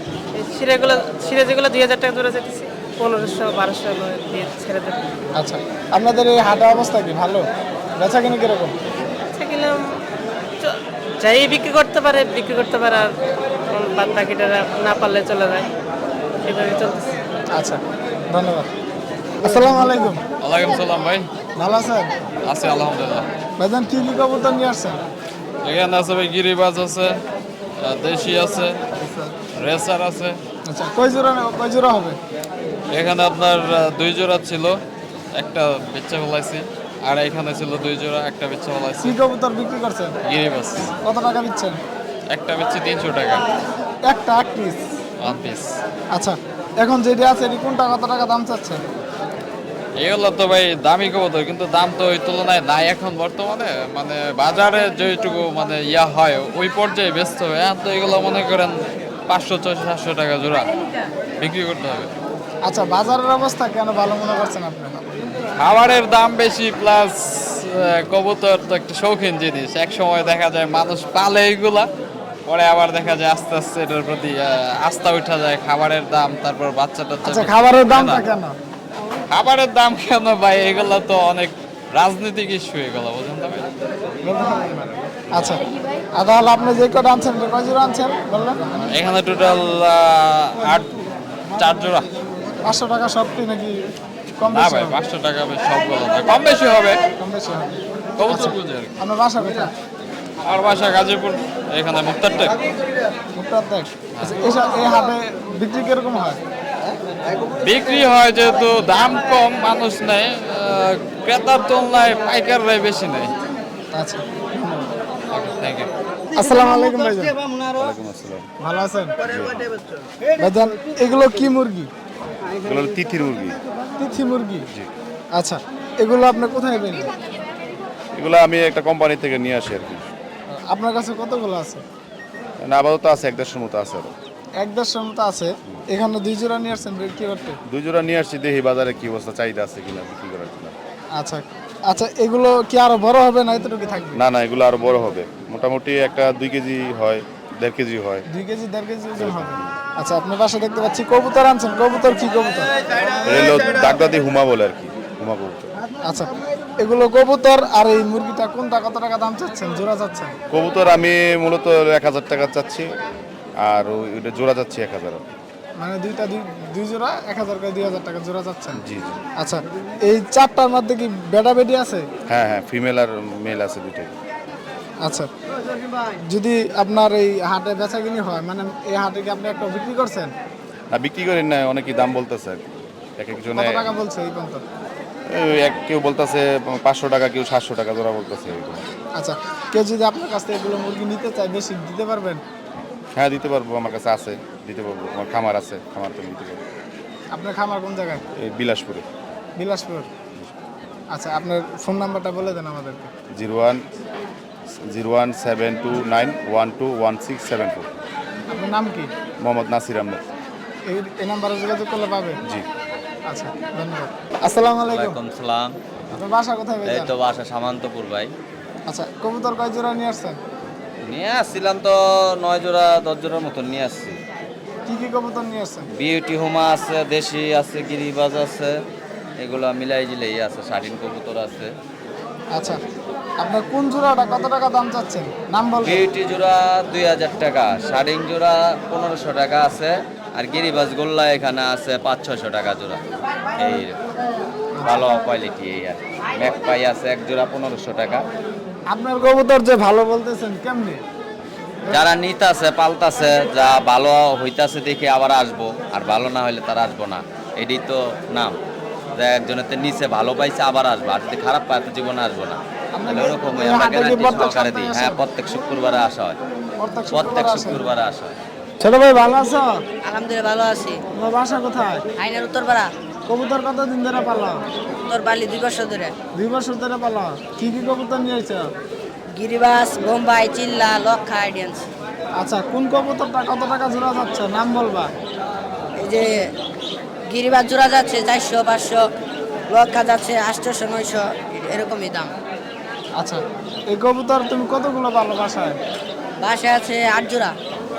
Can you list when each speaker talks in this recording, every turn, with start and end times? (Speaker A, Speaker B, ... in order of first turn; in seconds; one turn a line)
Speaker A: 0.3-5.0
Speaker B: 5.3-7.5
Speaker B: 8.0-8.8
Speaker A: 9.2-9.8
Speaker A: 10.6-13.1
Speaker A: 13.7-15.7
Speaker A: 16.4-17.1
Speaker B: 17.5-18.7
Speaker B: 19.4-20.2
Speaker C: 20.4-21.3
Speaker B: 21.6-22.1
Speaker C: 22.4-23.3
Speaker B: 23.6-25.0
Speaker C: 25.6-27.2
Speaker C: 27.8-28.8
Speaker B: 29.0-29.3
Speaker C: 29.6-30.4
Speaker B: 30.7-32.2
Speaker C: 32.9-34.8
Speaker C: 35.4-39.2
Speaker B: 39.0-40.2
Speaker C: 40.3-40.9
Speaker B: 41.0-41.8
Speaker C: 42.3-43.4
Speaker B: 44.0-44.9
Speaker C: 45.2-45.7
Speaker B: 46.1-48.8
Speaker C: 50.0-60.7
Speaker C: 61.4-62.1
Speaker B: 62.6-65.0
Speaker C: 65.6-71.9
Speaker C: 72.5-78.3
Speaker B: 77.2-78.6
Speaker C: 79.3-83.7
Speaker B: 84.2-85.6
Speaker B: 86.1-88.8
Speaker C: 88.9-90.9
Speaker C: 91.6-92.1
Speaker B: 92.6-93.8
Speaker B: 94.4-95.0
Speaker C: 94.5-97.0
Speaker B: 97.2-97.8
Speaker C: 98.2-98.9
Speaker B: 98.3-99.7
Speaker C: 100.4-102.6
Speaker B: 103.3-106.4
Speaker C: 107.6-113.3
Speaker B: 113.9-114.9
Speaker C: 115.3-115.9
Speaker B: 116.3-117.4
Speaker D: 117.8-118.5
Speaker B: 118.6-119.2
Speaker D: 119.2-119.7
Speaker B: 120.4-121.9
Speaker D: 122.6-123.6
Speaker B: 124.0-124.7
Speaker B: 125.3-127.1
Speaker D: 128.1-130.1
Speaker B: 130.7-131.8
Speaker D: 132.6-134.1
Speaker B: 134.6-137.6
Speaker D: 137.7-140.8
Speaker B: 141.2-144.2
Speaker D: 144.2-148.3
Speaker B: 148.3-152.7
Speaker D: 149.2-149.8
Speaker D: 153.3-155.7
Speaker B: 156.0-160.3
Speaker D: 160.5-162.9
Speaker D: 163.6-165.2
Speaker B: 165.8-168.8
Speaker D: 168.8-169.2
Speaker B: 169.4-172.1
Speaker D: 172.3-174.1
Speaker B: 175.0-175.3
Speaker B: 176.2-180.3
Speaker D: 180.9-182.6
Speaker D: 183.2-183.8
Speaker B: 183.6-184.6
Speaker D: 185.3-188.8
Speaker B: 189.2-192.4
Speaker D: 193.2-196.6
Speaker B: 197.3-198.2
Speaker D: 198.4-199.1
Speaker B: 199.6-200.1
Speaker B: 201.1-203.1
Speaker D: 203.3-203.8
Speaker D: 204.9-207.9
Speaker B: 208.5-209.1
Speaker D: 209.4-210.2
Speaker B: 210.9-212.4
Speaker B: 213.3-215.2
Speaker E: 214.8-215.8
Speaker B: 216.1-217.1
Speaker E: 216.8-218.3
Speaker B: 218.9-220.4
Speaker E: 221.0-224.2
Speaker B: 224.9-225.9
Speaker E: 226.0-228.7
Speaker E: 229.4-231.7
Speaker B: 232.5-232.8
Speaker B: 233.4-236.0
Speaker E: 235.8-243.0
Speaker E: 243.6-244.0
Speaker B: 244.7-245.1
Speaker E: 244.8-248.2
Speaker B: 248.9-251.0
Speaker E: 251.9-258.6
Speaker E: 259.2-266.4
Speaker B: 262.9-265.2
Speaker B: 266.8-267.8
Speaker E: 267.1-268.3
Speaker B: 268.8-269.8
Speaker F: 270.0-271.0
Speaker B: 271.1-272.0
Speaker F: 272.2-272.9
Speaker B: 273.3-274.6
Speaker F: 275.1-276.1
Speaker B: 276.4-278.7
Speaker F: 279.4-281.9
Speaker B: 282.4-285.1
Speaker F: 286.0-286.4
Speaker F: 287.3-289.0
Speaker F: 289.7-292.3
Speaker B: 293.2-295.8
Speaker F: 296.4-297.6